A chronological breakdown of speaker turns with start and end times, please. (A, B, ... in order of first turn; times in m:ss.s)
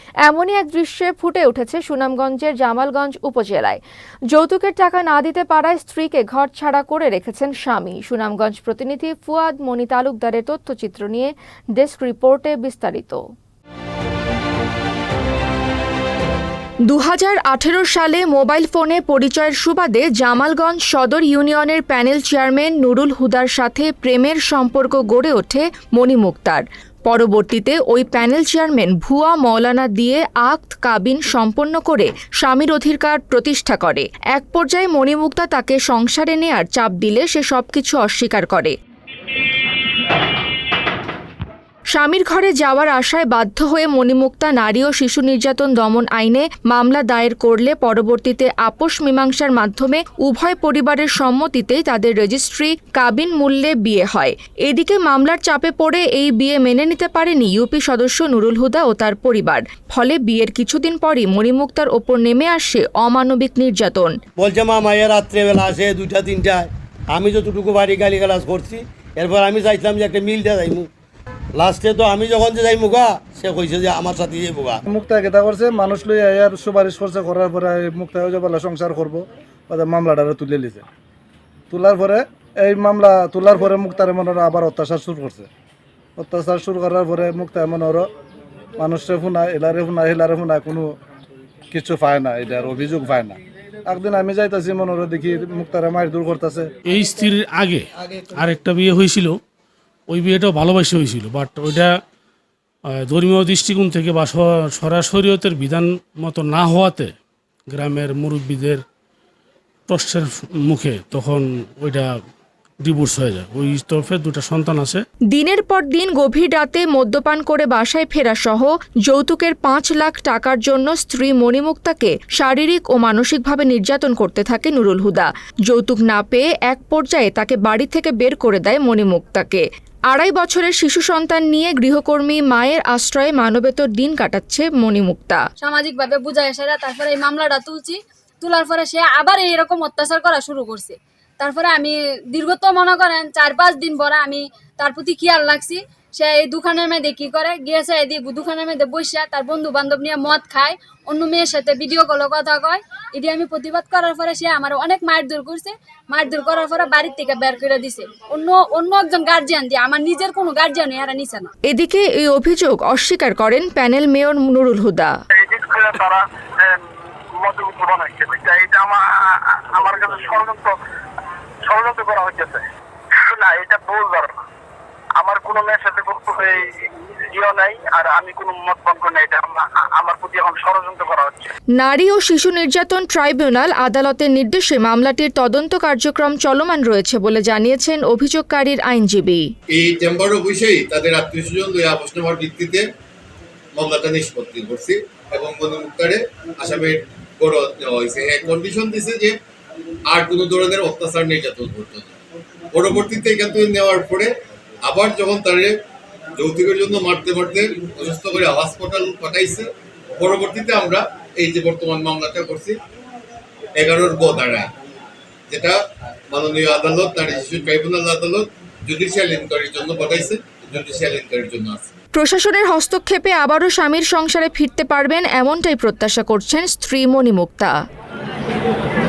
0:00.2-0:03.8 A
0:04.3-0:13.2 A
0:16.9-0:38.8 A
0:41.9-1:04.2 A
1:04.4-1:10.9 B
1:11.6-1:14.8 B
1:14.9-1:20.8 C
1:21.7-1:25.5 C
1:26.2-1:28.1 C
1:28.8-1:31.0 C
1:31.7-1:36.7 C
1:36.9-1:39.4 D
1:40.1-1:41.9 D
1:42.9-1:47.1 D
1:47.7-1:48.8 D
1:49.9-1:52.1 D
1:52.8-1:55.0 D
1:55.3-2:15.4 A
2:15.6-2:41.5 E
2:41.7-2:45.1 A
2:45.3-2:46.8 F
2:47.4-2:50.7 F
2:51.7-2:52.6 F
2:53.2-2:54.3 F
2:55.2-3:01.5 F
3:01.8-3:09.5 A
3:09.7-3:12.9 G
3:13.7-3:19.4 G
3:20.1-3:22.2 G
3:22.7-3:25.8 G
3:26.4-3:32.8 G
3:33.8-3:34.7 G
3:35.5-3:35.8 G
3:36.3-3:41.9 G
3:42.1-3:47.7 A